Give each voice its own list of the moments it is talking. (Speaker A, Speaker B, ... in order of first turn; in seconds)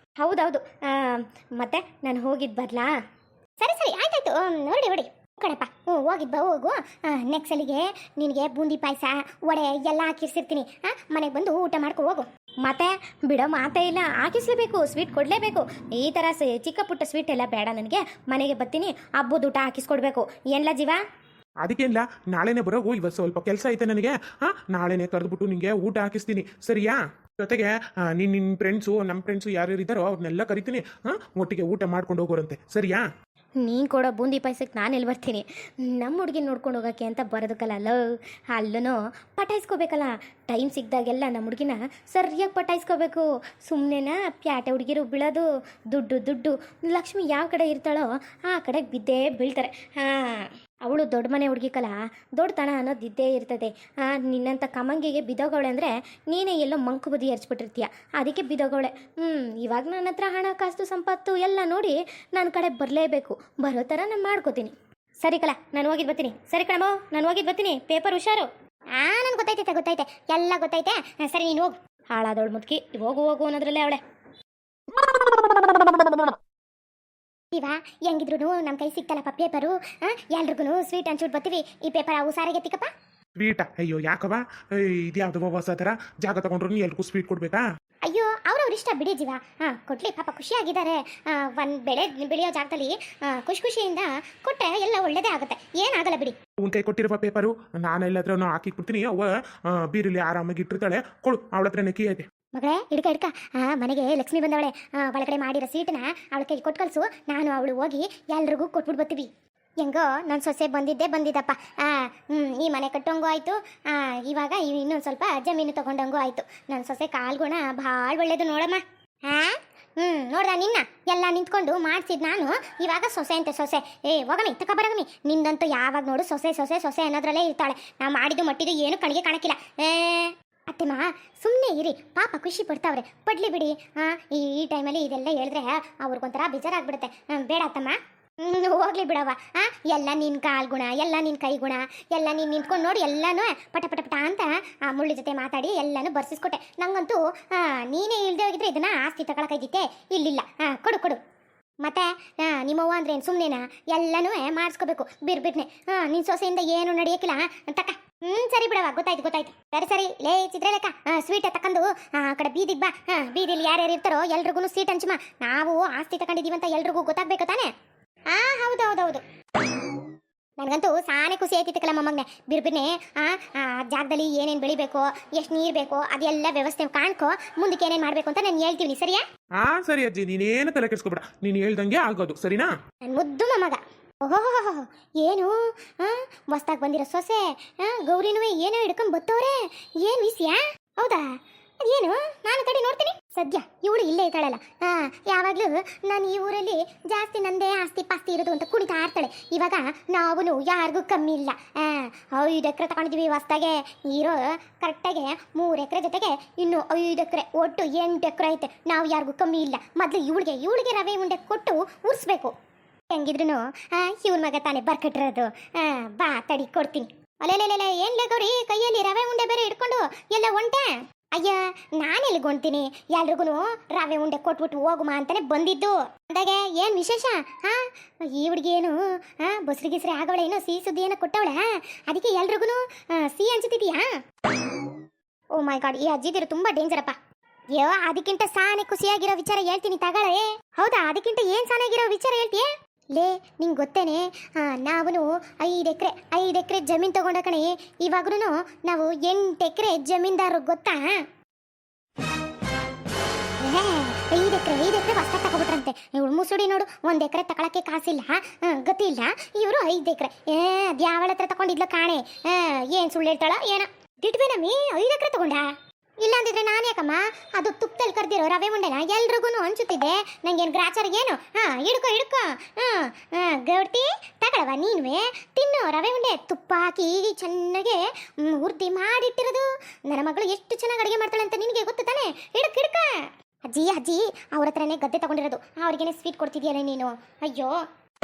Speaker A: 0.2-2.9, 12.7-21.0, 33.6-38.0, 38.5-68.5, 72.1-74.0, 76.0-76.2
Speaker B: 3.6-12.2, 69.0-71.8, 77.5-82.9, 88.1-96.3, 102.5-109.3, 109.8-151.2, 151.8-167.7, 168.3-169.2, 170.6-179.2, 183.1-191.2, 191.8-212.5, 213.1-234.1, 235.6-237.2, 237.7-251.2, 253.6-265.7, 266.2-283.1, 283.7-287.8
Speaker C: 21.6-33.0, 83.4-87.6, 96.6-102.3, 179.6-182.7